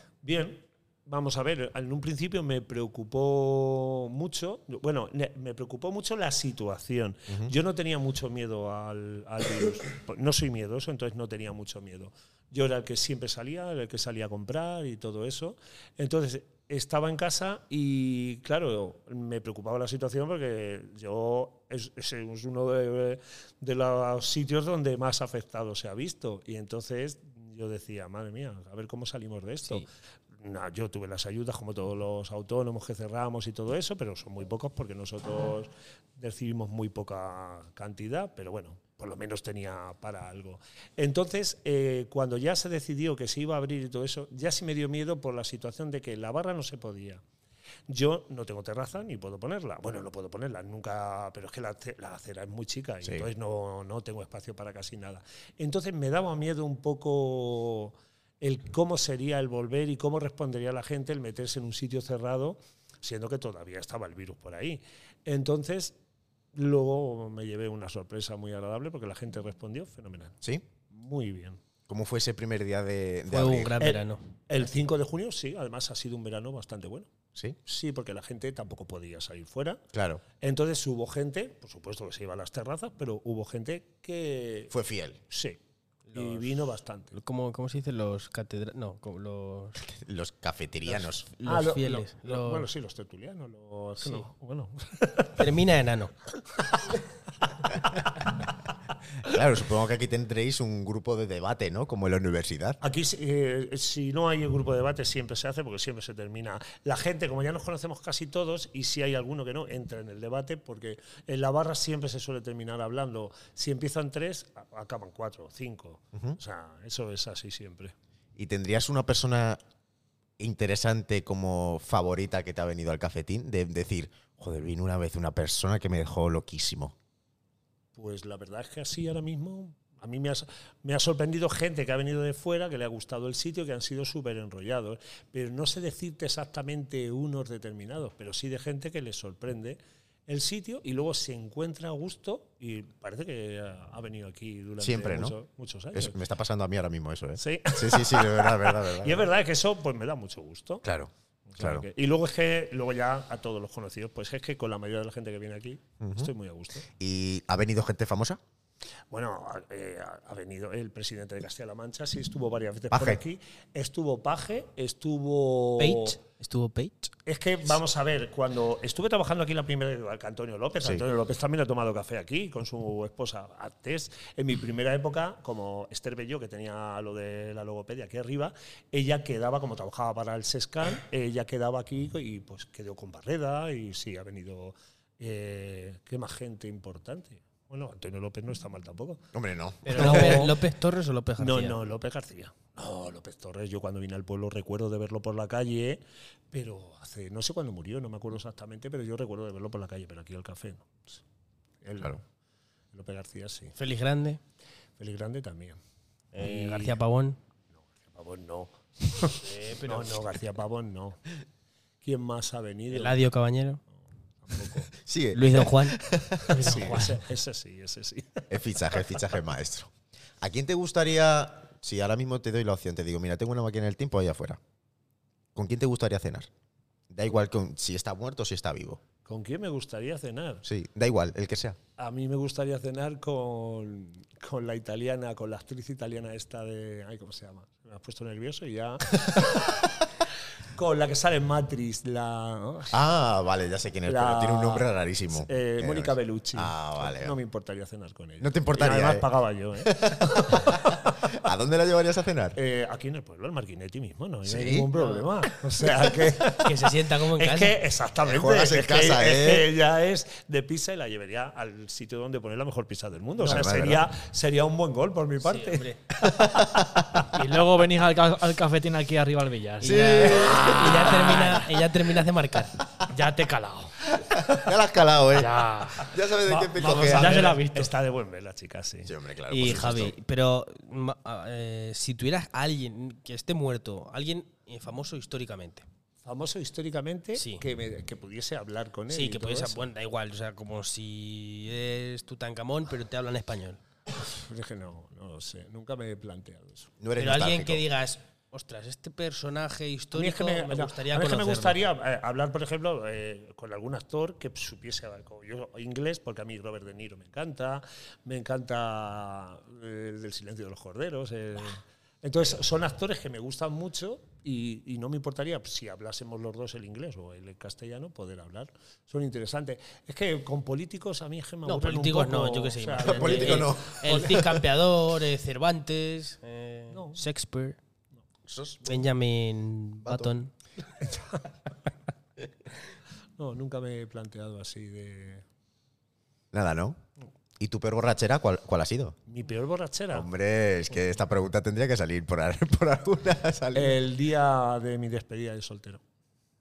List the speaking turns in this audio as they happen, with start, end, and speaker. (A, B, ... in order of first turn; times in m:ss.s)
0:00.2-0:47.2 A
0:47.9-1:06.0 A
1:06.5-1:10.4 A
1:10.9-1:11.6 A
1:11.9-1:13.8 B
1:13.3-1:14.2 C
1:13.8-1:17.1 A
1:17.6-1:19.8 A
1:19.9-1:20.2 B
1:20.4-1:24.7 A
1:24.7-1:25.2 B
1:25.3-1:25.6 A
1:26.1-1:26.5 C
1:26.1-1:27.2 A
1:27.1-1:29.8 C
1:29.8-1:31.2 B
1:31.3-1:32.7 C
1:31.4-1:35.5 A
1:34.0-1:34.2 C
1:35.4-1:36.1 C
1:39.2-1:42.8 B
1:42.8-1:57.9 A
1:58.4-1:59.6 B
2:00.4-2:06.9 B
2:07.9-2:26.2 A
2:24.8-2:25.3 B
2:25.9-2:29.3 B
2:27.4-2:30.8 A
2:30.8-2:31.8 B
2:31.5-2:36.9 A
2:36.0-2:36.3 B
2:36.9-2:38.4 B
2:39.1-2:46.2 A
2:42.9-2:43.2 B
2:45.8-2:47.1 C
2:47.2-3:09.2 A
3:09.3-3:10.5 B
3:09.8-3:10.6 A
3:09.8-3:11.8 C
3:11.4-3:21.2 A
3:21.8-3:22.2 A
3:22.9-3:23.7 A
3:23.8-3:24.4 C
3:25.0-3:25.8 A
3:26.3-3:27.0 A
3:26.3-3:27.4 C
3:27.8-3:31.2 A
3:29.4-3:30.4 C
3:32.0-3:33.2 A
3:32.9-3:33.8 C
3:34.4-3:34.9 A
3:34.9-3:37.0 B
3:35.3-3:36.0 C
3:36.5-3:37.2 D
3:36.5-3:39.1 A
3:38.5-3:44.6 B
3:45.5-3:46.5 B
3:47.1-3:49.0 B
3:49.2-3:50.6 A
3:50.6-3:51.8 B
3:52.0-3:59.8 A
4:00.6-4:03.0 A
4:02.9-4:07.4 B
4:04.0-4:11.1 A
4:08.4-4:09.3 B
4:09.8-4:12.6 B
4:12.6-4:26.7 A
4:14.4-4:14.9 B
4:16.4-4:17.8 C
4:18.2-4:19.7 B
4:23.4-4:24.0 B
4:25.4-4:26.0 C
4:26.2-4:27.2 B
4:27.3-4:31.8 D
4:29.8-4:32.8 C
4:29.8-4:31.4 B
4:33.1-4:34.0 D
4:34.2-4:37.5 B
4:35.3-4:36.1 D
4:36.4-4:39.1 A
4:36.8-4:37.9 D
4:39.0-4:40.1 B
4:39.5-4:45.8 C
4:46.2-4:49.9 A
4:47.4-4:47.6 C
4:49.1-4:53.8 C
4:54.2-4:56.9 A
4:57.0-4:57.8 B
4:57.2-5:01.8 C
5:00.1-5:24.7 A
5:21.6-5:27.8 C
5:23.0-5:24.0 B
5:26.9-5:27.2 A
5:28.5-5:29.0 B
5:28.8-5:30.5 C
5:30.0-5:30.3 B
5:31.0-5:31.5 A
5:33.4-5:35.4 A
5:36.5-5:37.0 B
5:37.6-5:39.2 B
5:39.3-5:40.3 A
5:40.1-5:44.0 B
5:43.7-5:46.0 A